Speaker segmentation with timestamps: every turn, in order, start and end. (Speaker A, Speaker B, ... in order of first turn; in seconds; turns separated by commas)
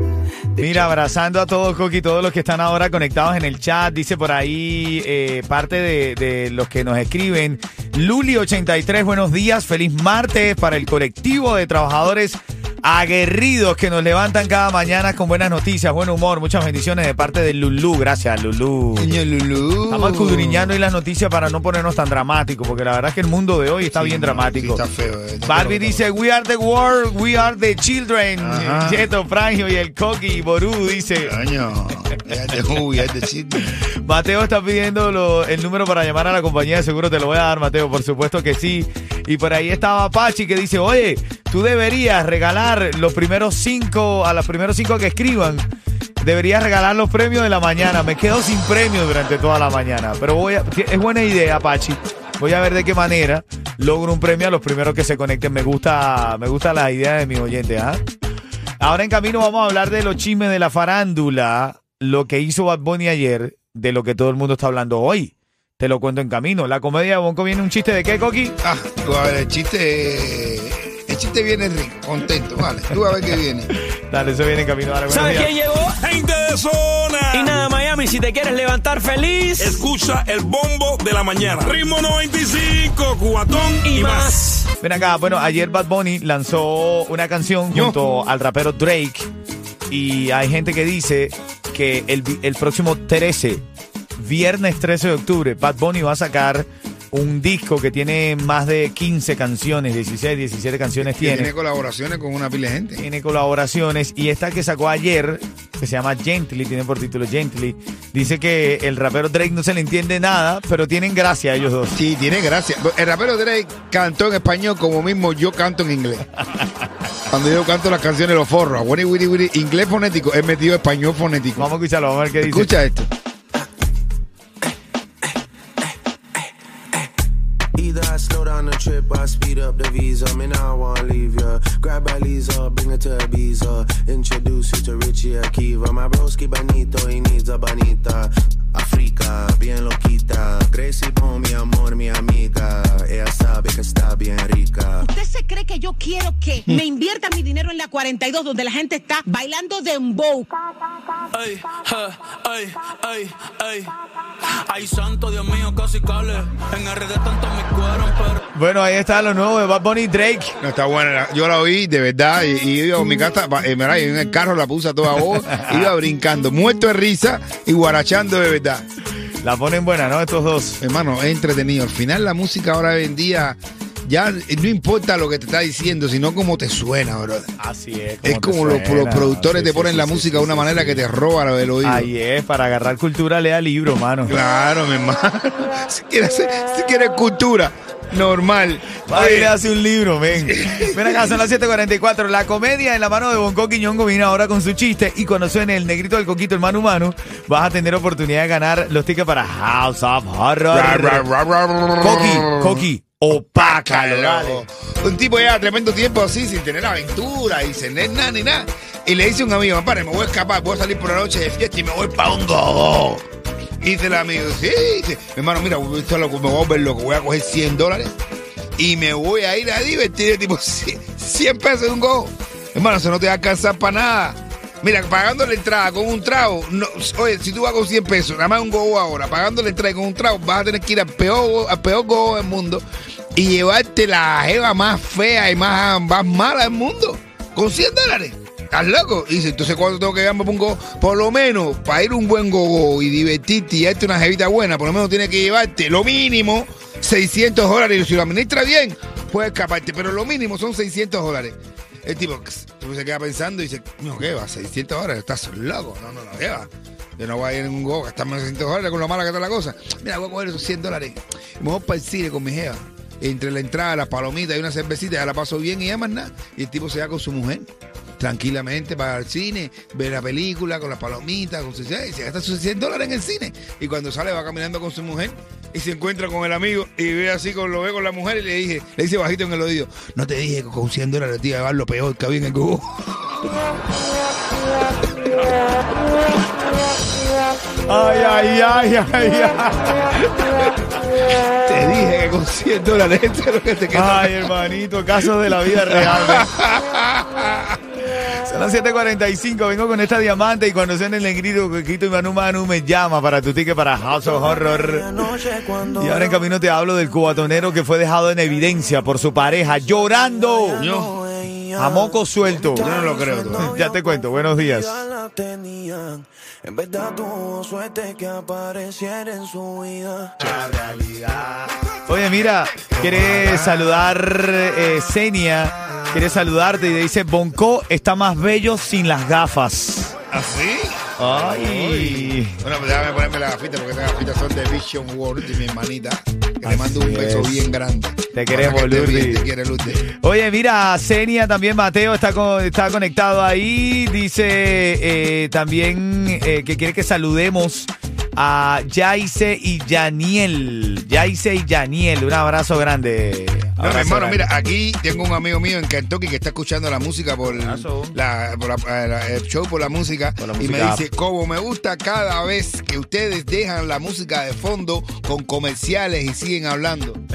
Speaker A: 0.6-19.1, Speaker B: 19.0-20.7, Speaker A: 19.9-24.8, Speaker B: 23.9-26.1, Speaker A: 25.4-31.3, Speaker B: 28.4-29.1, Speaker B: 31.2-33.8, Speaker A: 33.7-45.7, Speaker A: 46.2-58.0, Speaker A: 58.8-68.6, Speaker B: 68.6-73.7, Speaker A: 73.9-75.5, Speaker C: 75.1-76.0, Speaker D: 76.0-77.6, Speaker C: 77.3-79.9, Speaker D: 79.6-84.4, Speaker C: 83.9-84.7, Speaker A: 84.8-89.3, Speaker B: 87.7-88.0, Speaker A: 89.9-93.6, Speaker A: 94.2-101.5, Speaker B: 101.0-103.0, Speaker A: 103.0-112.0, Speaker B: 112.0-116.3, Speaker B: 117.3-121.7, Speaker A: 121.6-122.7, Speaker B: 122.4-123.1, Speaker E: 127.8-145.1, Speaker F: 145.0-150.5, Speaker C: 151.3-153.9, Speaker C: 154.7-158.4, Speaker A: 158.5-160.6, Speaker B: 160.6-168.8, Speaker A: 165.5-165.9, Speaker A: 169.4-170.8, Speaker B: 170.8-177.5, Speaker A: 177.6-181.1, Speaker B: 178.2-182.1, Speaker A: 181.8-184.4, Speaker B: 184.3-189.5, Speaker A: 189.0-201.3, Speaker B: 190.4-191.4, Speaker B: 200.7-213.2, Speaker A: 202.0-204.7, Speaker B: 213.8-218.2, Speaker B: 218.8-232.8, Speaker B: 233.3-267.7, Speaker B: 268.2-283.6, Speaker A: 287.9-290.7, Speaker B: 291.4-294.5, Speaker A: 293.9-296.5, Speaker B: 295.9-297.8, Speaker A: 298.1-305.1, Speaker E: 304.2-306.4, Speaker A: 305.9-310.9, Speaker E: 310.3-320.4, Speaker B: 310.8-311.1, Speaker A: 311.8-312.9, Speaker B: 312.8-313.7, Speaker A: 313.6-315.1, Speaker A: 320.4-330.2, Speaker B: 323.0-323.8, Speaker B: 330.3-340.0, Speaker A: 331.2-332.6, Speaker A: 336.6-337.7, Speaker A: 338.3-339.5, Speaker A: 340.1-354.5, Speaker B: 353.8-367.2, Speaker A: 357.4-358.2, Speaker A: 360.4-361.1